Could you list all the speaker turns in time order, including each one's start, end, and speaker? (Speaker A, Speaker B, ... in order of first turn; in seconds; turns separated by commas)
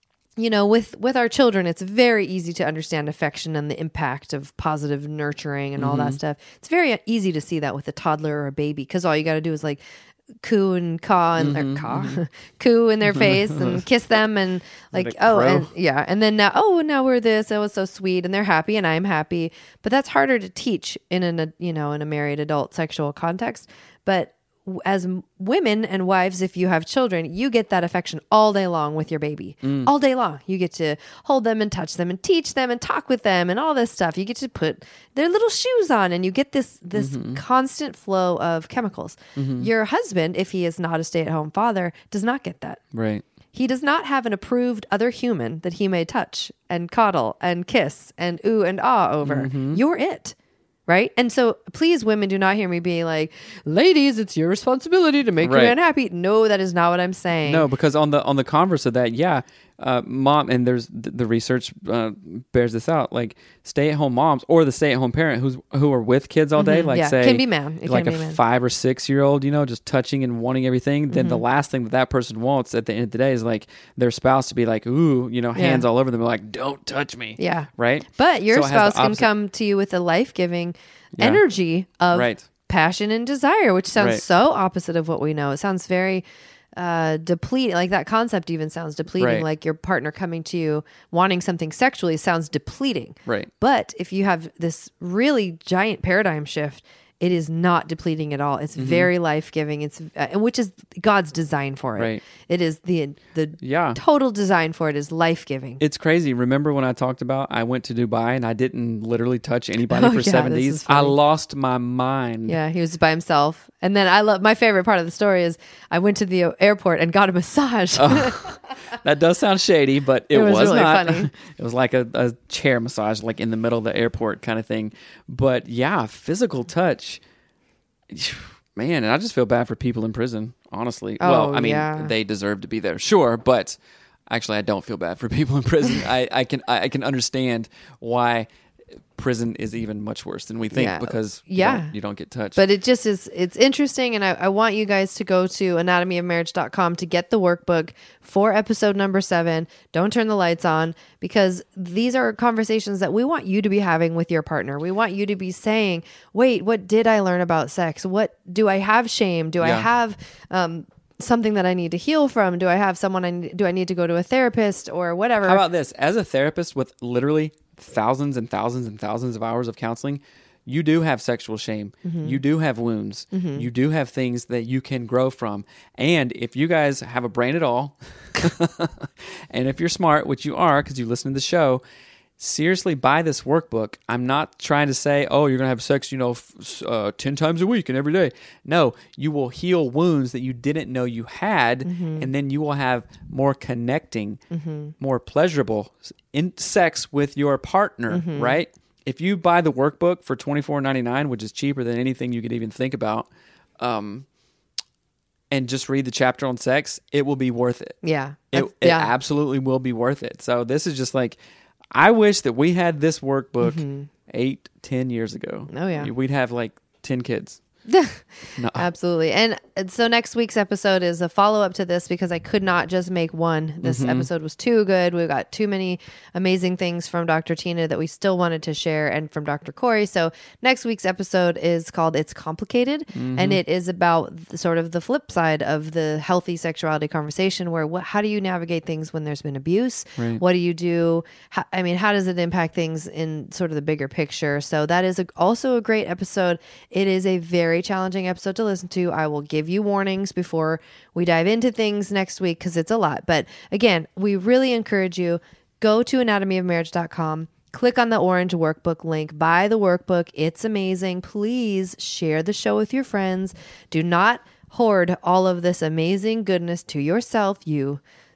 Speaker A: 0.4-9.8, Speaker B: 5.8-6.2, Speaker A: 10.4-42.8, Speaker B: 11.4-12.2, Speaker B: 13.1-13.8, Speaker B: 14.9-15.7, Speaker B: 29.6-29.9, Speaker B: 37.0-37.4, Speaker B: 39.4-39.7, Speaker B: 42.9-43.2, Speaker A: 43.5-50.4, Speaker B: 49.2-49.8, Speaker A: 50.9-57.7, Speaker B: 55.4-55.8, Speaker B: 57.5-79.3, Speaker A: 66.6-68.4, Speaker A: 71.1-71.4, Speaker A: 75.5-75.9, Speaker A: 77.4-86.2, Speaker B: 81.2-81.4, Speaker B: 82.1-82.5, Speaker B: 84.0-84.2, Speaker A: 86.8-105.8, Speaker B: 89.2-89.5, Speaker B: 93.2-93.5, Speaker B: 98.8-99.1, Speaker B: 102.0-102.2, Speaker B: 103.6-104.0, Speaker B: 105.8-112.6, Speaker A: 109.9-111.2, Speaker A: 112.5-118.5, Speaker B: 118.0-127.2, Speaker A: 120.3-121.3, Speaker B: 128.1-138.5, Speaker A: 131.2-132.1, Speaker B: 139.1-142.6, Speaker A: 140.7-141.9, Speaker A: 142.6-165.6, Speaker B: 159.6-159.9, Speaker B: 165.4-181.8, Speaker A: 172.0-172.4, Speaker A: 173.3-173.7, Speaker B: 182.4-194.4, Speaker A: 191.8-192.3, Speaker A: 194.5-194.9, Speaker B: 195.0-204.3, Speaker A: 198.1-198.6, Speaker B: 205.5-207.9, Speaker A: 208.0-209.1, Speaker B: 208.5-211.4, Speaker B: 211.9-217.6, Speaker A: 213.6-214.1, Speaker A: 215.7-216.1, Speaker A: 217.9-268.0, Speaker B: 218.6-218.9, Speaker B: 223.8-224.3, Speaker B: 233.1-233.6, Speaker B: 240.2-240.4